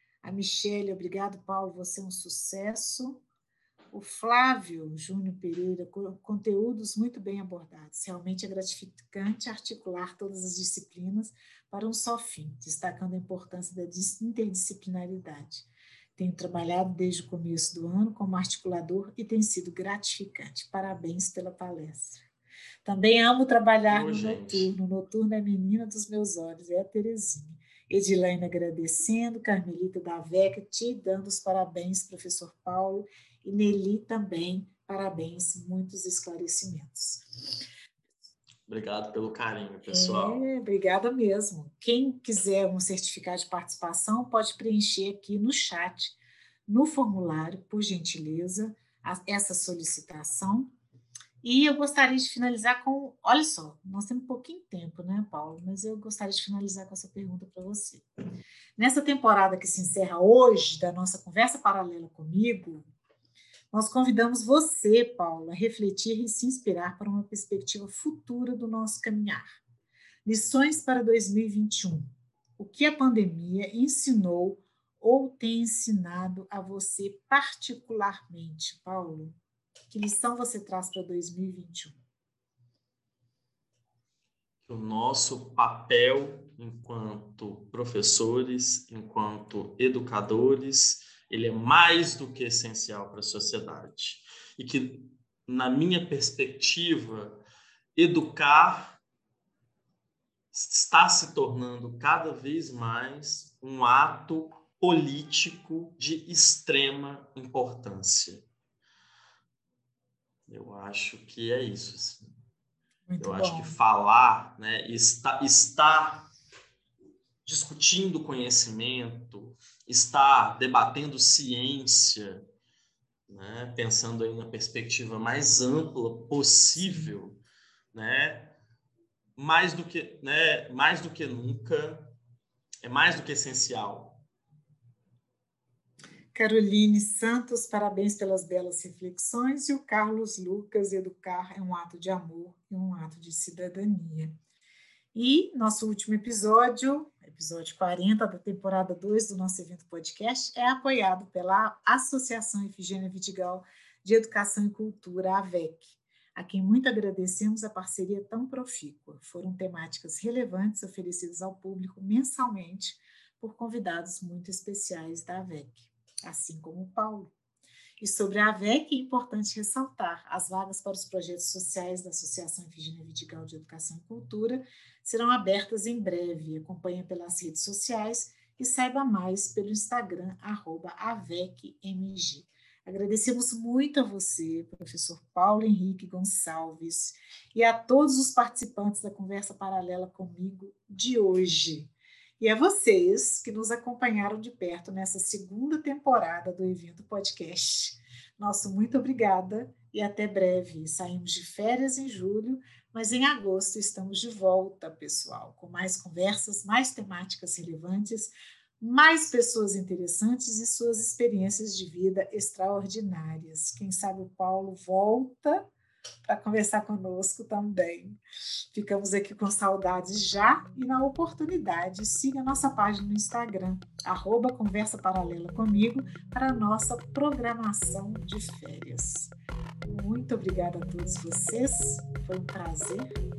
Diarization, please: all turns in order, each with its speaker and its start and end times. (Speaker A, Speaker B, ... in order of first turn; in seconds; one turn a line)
Speaker A: 0.2-3.2
Speaker A: 3.9-22.2
Speaker A: 22.8-37.3
Speaker B: 23.9-24.7
Speaker B: 38.7-40.5
Speaker A: 39.9-50.7
Speaker A: 51.4-58.1
Speaker A: 58.8-62.9
Speaker A: 63.7-69.6
Speaker A: 70.2-79.4
Speaker A: 79.9-82.0
Speaker B: 84.7-97.4
Speaker B: 97.9-99.0
Speaker B: 100.5-108.4
Speaker B: 110.5-112.3
Speaker A: 113.1-113.8
Speaker B: 113.2-116.3
Speaker B: 117.4-122.4
Speaker B: 123.3-127.4
Speaker A: 126.8-127.1
Speaker B: 127.9-128.6
Speaker B: 129.4-132.1
Speaker B: 132.8-134.2
Speaker A: 136.3-144.4
Speaker A: 145.1-167.3
Speaker A: 168.0-215.6
Speaker A: 216.2-218.2
Speaker A: 218.7-229.3
Speaker A: 229.9-233.2